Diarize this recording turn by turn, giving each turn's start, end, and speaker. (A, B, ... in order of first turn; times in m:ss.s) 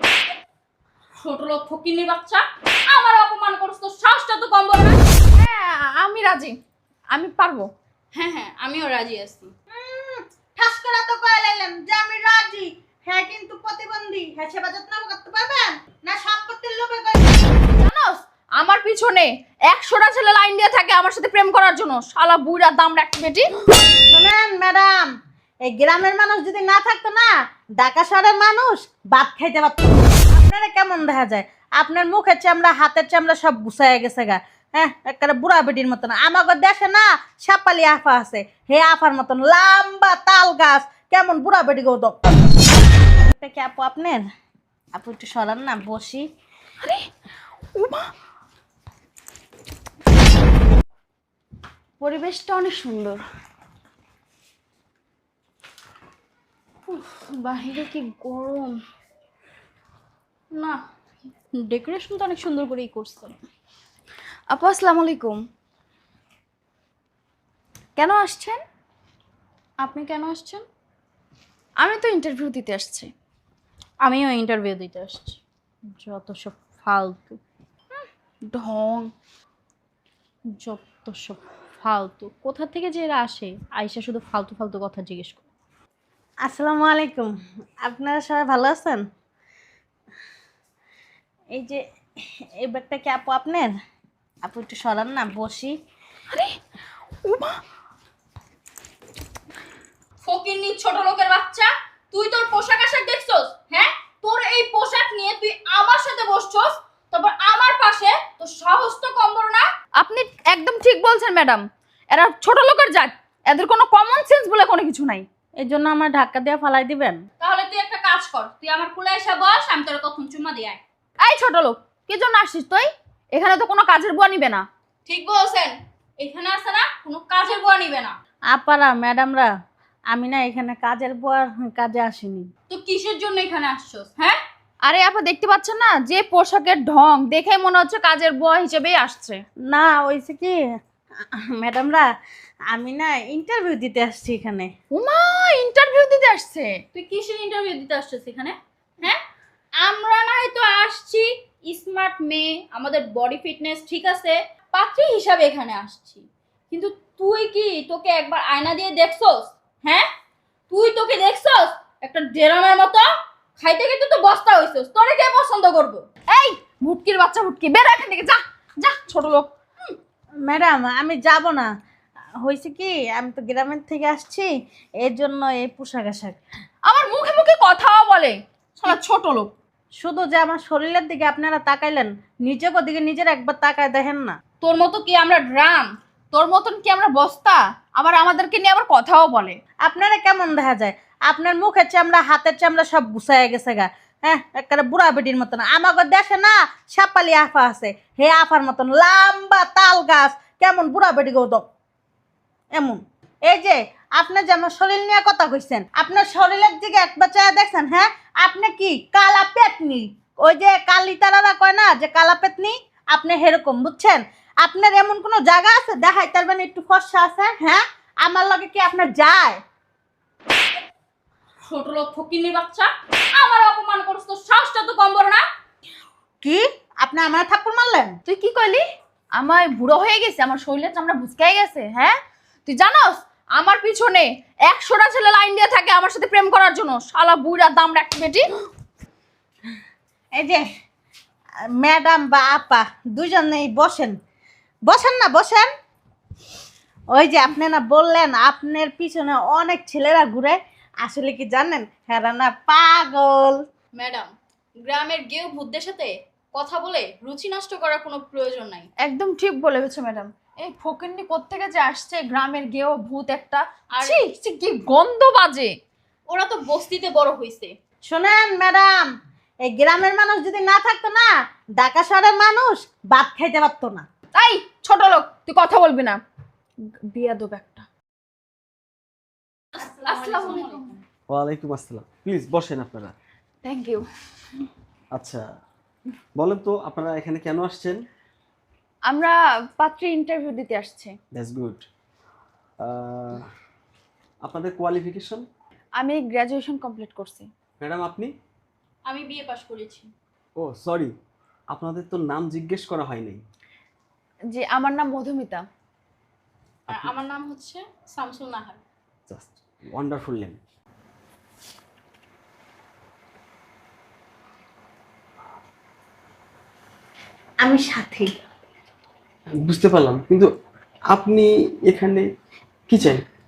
0:01.2-0:05.0 A
0:05.3-0:06.6 B
0:07.1-0:07.7 B
0:08.1-0:09.5 A
0:09.7-0:17.4 C
0:17.6-0:23.5 B
0:24.1-0:25.1 C
0:25.6-0:42.2 C
0:43.2-0:44.2 C
0:44.9-0:46.2 C
0:46.8-0:47.1 B
0:47.7-0:48.1 B
0:52.0-0:53.2 B
0:56.9-0:58.8 B
1:00.5-1:00.8 A
1:01.6-1:03.3 A
1:04.5-1:05.4 B
1:08.0-1:08.6 B
1:09.8-1:10.6 A
1:11.8-1:13.1 B
1:14.0-1:15.4 A
1:16.0-1:17.4 A
1:18.0-1:19.1 B
1:20.6-1:25.4 A
1:26.4-1:29.0 C
1:31.5-1:31.8 C
1:32.6-1:33.7 C
1:34.4-1:35.7 C
1:36.3-1:36.6 B
1:37.2-1:37.6 B
1:40.2-1:49.6 A
1:50.0-1:55.3 B
1:55.6-1:57.2 C
1:57.4-2:00.8 A
2:01.2-2:04.6 B
2:05.0-2:08.1 A
2:08.5-2:09.5 C
2:10.1-2:12.5 C
2:12.7-2:14.4 A
2:14.8-2:19.4 B
2:19.7-2:20.6 C
2:21.3-2:22.1 C
2:22.7-2:24.7 C
2:24.9-2:26.8 B
2:26.9-2:29.2 A
2:29.8-2:40.0 A
2:40.7-2:43.0 A
2:43.6-2:46.0 A
2:46.3-2:49.5 B
2:50.4-2:51.7 C
2:52.4-2:54.5 C
2:55.0-2:56.4 C
2:56.8-2:59.5 B
3:00.0-3:04.3 C
3:04.6-3:05.9 A
3:06.3-3:09.6 B
3:09.8-3:21.6 C
3:22.7-3:39.6 C
3:41.7-3:45.4 A
3:46.4-3:48.1 C
3:48.2-3:48.8 B
3:49.4-3:58.4 B
4:00.3-4:00.6 C
4:01.8-4:04.1 C
4:04.9-4:05.7 C
4:07.1-4:13.6 C
4:13.9-4:14.3 A
4:14.8-4:18.9 A
4:19.0-4:25.8 B
4:26.3-4:27.7 A
4:28.0-4:29.1 C
4:29.6-4:34.0 C
4:34.3-4:36.2 B
4:37.1-4:37.9 B
4:39.7-4:41.0 A
4:40.0-4:41.0 B
4:41.3-4:43.1 D
4:43.6-4:44.0 B
4:45.2-4:45.4 D
4:46.3-4:48.0 D
4:49.1-4:51.1 B
4:51.3-4:51.8 D
4:52.8-4:53.5 D
4:54.4-4:55.4 D
4:56.0-4:57.5 B
4:57.8-4:58.3 D
4:59.1-5:00.1 A
5:00.6-5:01.1 D
5:01.7-5:03.4 D
5:04.5-5:05.6 B
5:06.9-5:08.8 A
5:09.3-5:10.6 D
5:17.6-5:18.3 C
5:19.6-5:20.5 D
5:21.1-5:22.3 D
5:22.9-5:23.2 D